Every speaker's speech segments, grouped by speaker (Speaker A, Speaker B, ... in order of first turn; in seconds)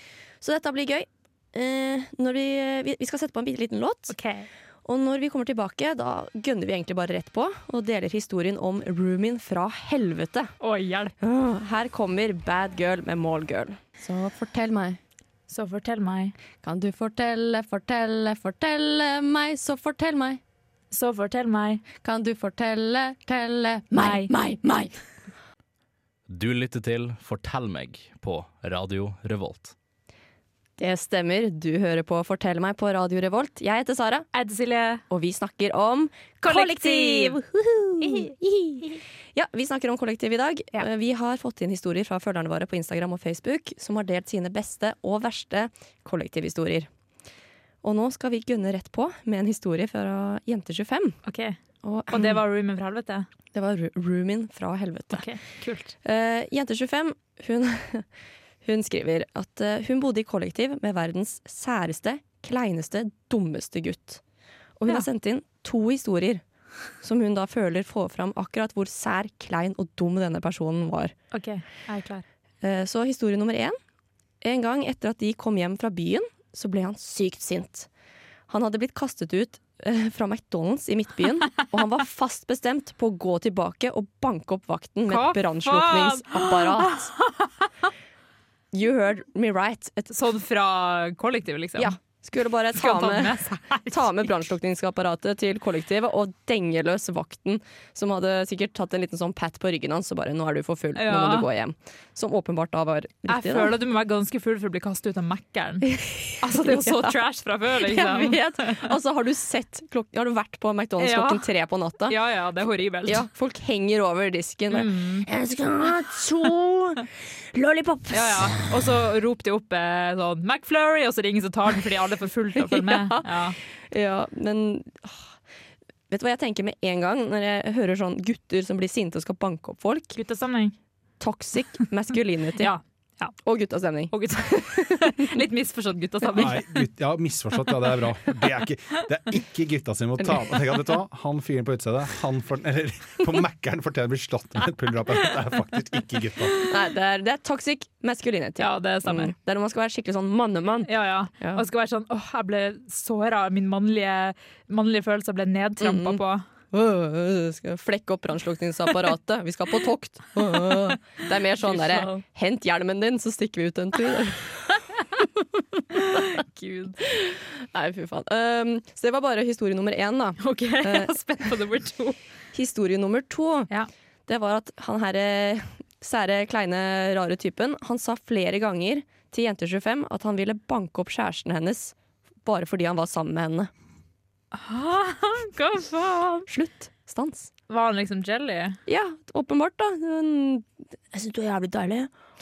Speaker A: 0.4-4.1, 4.8-10.5, 11.2-15.0, 16.6-20.4, 22.0-24.9, 30.8-34.3, 35.1-46.9, 47.8-51.2, 51.8-52.4, 53.5-55.2, 56.0-58.0, 58.6-64.2, 64.8-66.4, 67.0-71.1, 72.6-73.8, 74.4-77.9, 78.5-87.1, 88.7-90.1, 91.8-103.7, 105.9-107.2, 107.8-112.2, 113.1-118.6, 122.6-125.3, 126.1-130.1, 131.2-132.7, 133.4-135.3, 146.7-151.6, 155.8-166.2, 167.1-171.5, 172.5-173.7, 174.3-183.7, 186.5-187.5, 188.8-192.1
Speaker B: 4.1-4.5, 10.6-11.1, 15.5-16.3, 20.9-21.8, 23.9-24.3, 34.3-35.0, 36.4-37.4, 38.0-39.0, 51.2-51.5, 52.1-53.3, 55.1-55.9, 71.3-72.2, 85.1-87.5, 90.1-91.9, 92.7-94.3, 100.9-101.5, 103.3-105.9, 106.4-108.9, 111.0-111.5, 112.1-113.2, 114.7-115.3, 118.1-123.6, 130.1-130.8, 132.6-133.4, 134.1-136.8, 148.6-149.3, 150.8-156.4, 161.6-162.2, 165.9-167.0, 170.4-172.2, 184.5-186.5, 187.7-188.8
Speaker C: 26.3-29.7
Speaker D: 136.3-146.6